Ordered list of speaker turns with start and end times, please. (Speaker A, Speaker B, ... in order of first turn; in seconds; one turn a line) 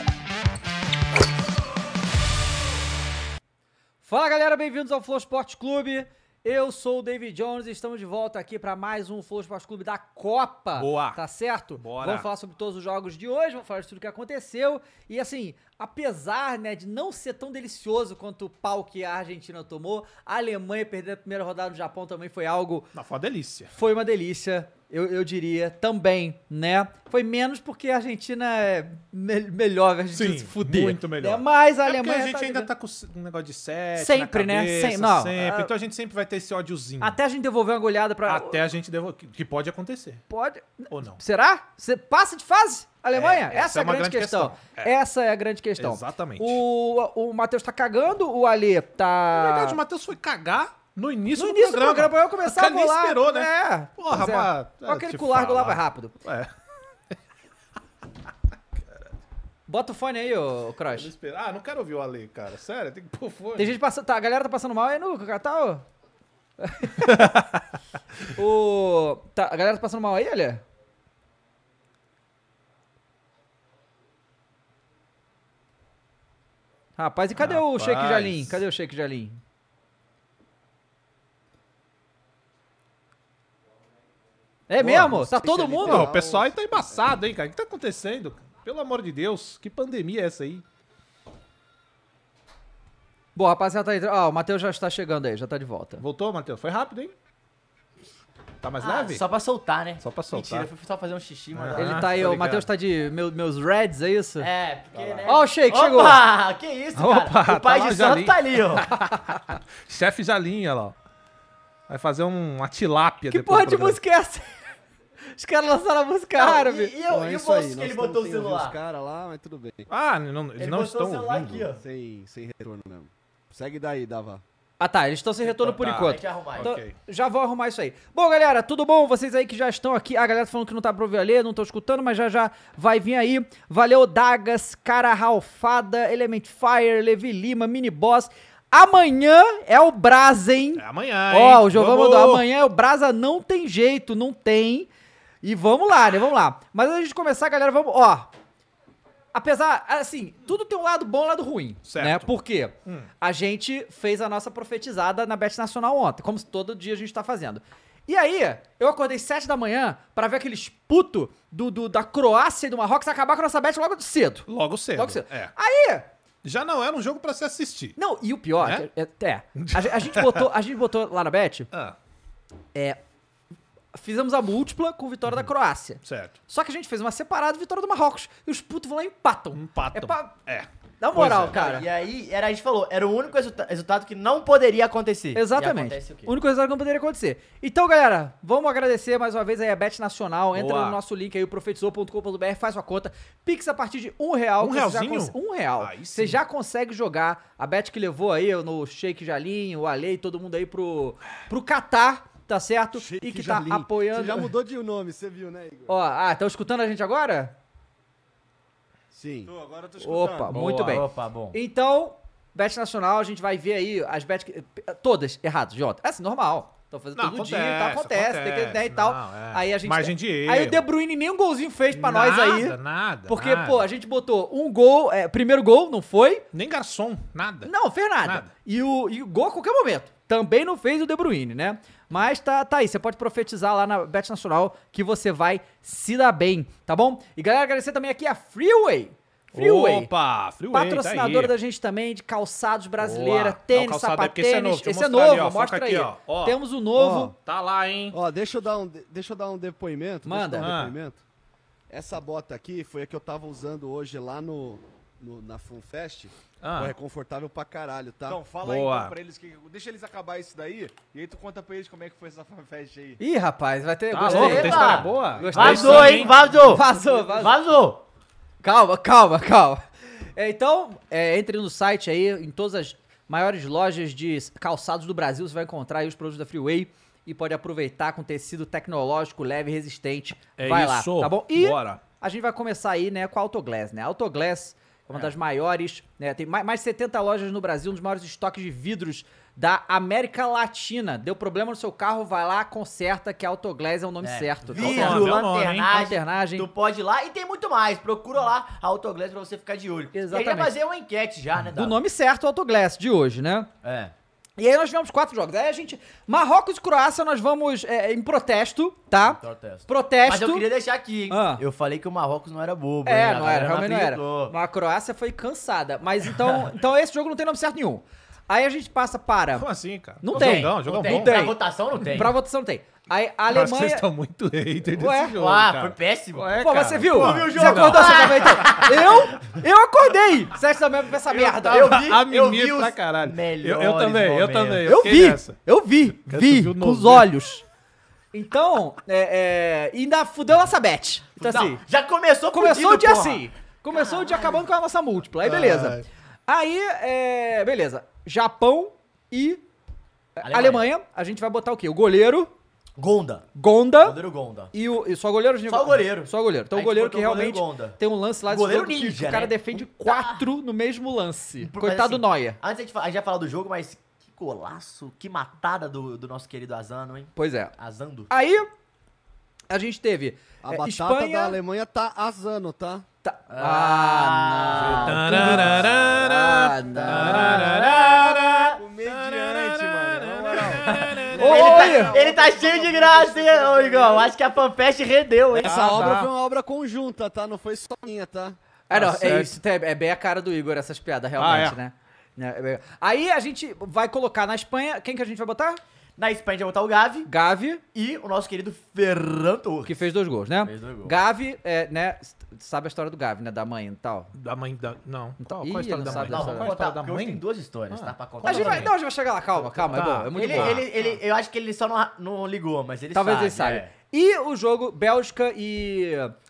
Speaker A: 4.0-22.9
Speaker B: 10.8-11.2
Speaker B: 11.8-12.3
Speaker B: 22.9-23.7
Speaker A: 23.7-32.7
Speaker B: 30.1-37.2
Speaker A: 34.0-35.7
Speaker A: 37.0-38.6
Speaker B: 38.3-40.2
Speaker A: 40.3-49.8
Speaker B: 40.9-41.2
Speaker B: 43.1-44.9
Speaker B: 45.8-46.6
Speaker B: 49.3-56.5
Speaker A: 51.3-56.1
Speaker A: 59.7-61.1
Speaker B: 61.0-63.8
Speaker A: 63.6-65.9
Speaker A: 66.6-67.3
Speaker B: 67.0-67.6
Speaker A: 68.3-70.6
Speaker A: 77.0-79.4
Speaker B: 77.4-78.6
Speaker A: 84.7-86.1
Speaker C: 84.8-87.0
Speaker B: 85.8-90.6
Speaker A: 93.4-96.0
Speaker B: 96.0-97.1
Speaker B: 98.6-99.2
Speaker D: 98.8-102.3
Speaker B: 100.0-100.7
Speaker B: 101.5-102.7
Speaker A: 101.8-104.5
Speaker D: 104.4-108.9
Speaker B: 104.9-105.2
Speaker A: 105.3-106.2
Speaker B: 107.0-111.0
Speaker B: 111.9-114.0
Speaker A: 113.3-114.5
Speaker A: 115.3-116.9
Speaker D: 116.4-118.8
Speaker C: 117.1-119.9
Speaker B: 119.9-121.7
Speaker D: 120.6-121.8
Speaker C: 121.8-124.4
Speaker A: 124.8-144.9
Speaker D: 125.6-126.7
Speaker B: 125.8-126.9
Speaker B: 140.8-142.4
Speaker A: 145.4-148.3
Speaker A: 149.3-166.1
Speaker B: 151.9-153.1
Speaker B: 164.5-165.5
Speaker B: 166.4-168.0
Speaker A: 168.0-171.7
Speaker B: 168.6-168.9
Speaker B: 169.6-170.4
Speaker A: 172.7-173.0
Speaker A: 173.9-180.3
Speaker B: 176.0-176.4
Speaker B: 179.5-181.6
Speaker A: 181.0-181.9
Speaker D: 181.5-186.4
Speaker A: 185.3-204.5
Speaker B: 190.6-191.0
Speaker B: 194.6-196.4
Speaker C: 202.9-205.9
Speaker A: 205.9-207.6
Speaker C: 209.1-209.5
Speaker E: 209.5-210.5
Speaker A: 210.0-222.8
Speaker B: 210.5-211.0
Speaker D: 210.5-211.6
Speaker B: 217.2-220.9
Speaker B: 221.9-223.9
Speaker A: 223.3-226.4
Speaker B: 226.5-227.7
Speaker A: 227.7-240.1
Speaker B: 228.2-228.5
Speaker B: 239.5-241.5
Speaker A: 240.7-247.3
Speaker B: 243.0-246.6
Speaker C: 247.0-247.3
Speaker B: 247.4-248.2
Speaker C: 248.1-251.2
Speaker A: 250.3-250.7
Speaker B: 250.6-250.9
Speaker C: 251.9-258.4
Speaker B: 256.6-256.9
Speaker E: 258.3-263.2
Speaker B: 258.6-259.1
Speaker A: 263.2-267.6
Speaker B: 264.1-266.4
Speaker D: 264.2-268.0
Speaker A: 268.6-269.8
Speaker A: 270.4-295.4
Speaker B: 280.6-282.0
Speaker D: 294.2-302.0
Speaker B: 294.7-295.9
Speaker A: 295.9-296.7
Speaker A: 300.1-300.7
Speaker A: 301.8-303.7
Speaker D: 303.8-304.1
Speaker A: 304.6-310.7
Speaker D: 309.2-314.6
Speaker A: 311.3-311.6
Speaker A: 313.1-319.7
Speaker B: 319.6-321.4
Speaker A: 320.2-324.1
Speaker D: 320.3-322.4
Speaker B: 323.5-328.8
Speaker A: 324.9-325.4
Speaker D: 325.4-329.4
Speaker A: 326.6-331.9
Speaker D: 331.3-335.1
Speaker B: 331.7-335.6
Speaker A: 334.9-337.6
Speaker B: 336.3-337.3
Speaker A: 338.3-341.8
Speaker D: 341.4-344.6
Speaker A: 342.5-349.6
Speaker B: 345.4-346.0
Speaker A: 350.4-352.5
Speaker D: 350.4-350.9
Speaker D: 353.0-354.7
Speaker A: 353.6-354.2
Speaker A: 354.7-362.6
Speaker D: 355.7-360.5
Speaker D: 361.6-368.3
Speaker A: 367.4-367.7
Speaker A: 368.3-368.7
Speaker A: 369.7-371.6
Speaker C: 370.6-373.1
Speaker A: 373.2-377.8
Speaker D: 373.5-376.1
Speaker B: 374.8-381.6
Speaker D: 376.9-378.8
Speaker E: 378.8-384.4
Speaker D: 381.3-385.8
Speaker A: 381.4-382.1
Speaker B: 385.6-386.3
Speaker C: 385.6-388.6
Speaker A: 388.9-395.8
Speaker B: 388.9-389.6
Speaker B: 391.4-391.8
Speaker D: 396.2-397.3
Speaker A: 397.3-397.8
Speaker D: 397.9-400.0
Speaker A: 399.9-404.3
Speaker D: 400.6-401.2
Speaker B: 404.3-408.9
Speaker A: 405.4-406.7
Speaker D: 406.1-409.0
Speaker A: 408.4-410.8
Speaker D: 409.5-413.9
Speaker B: 409.9-410.9
Speaker A: 413.1-416.3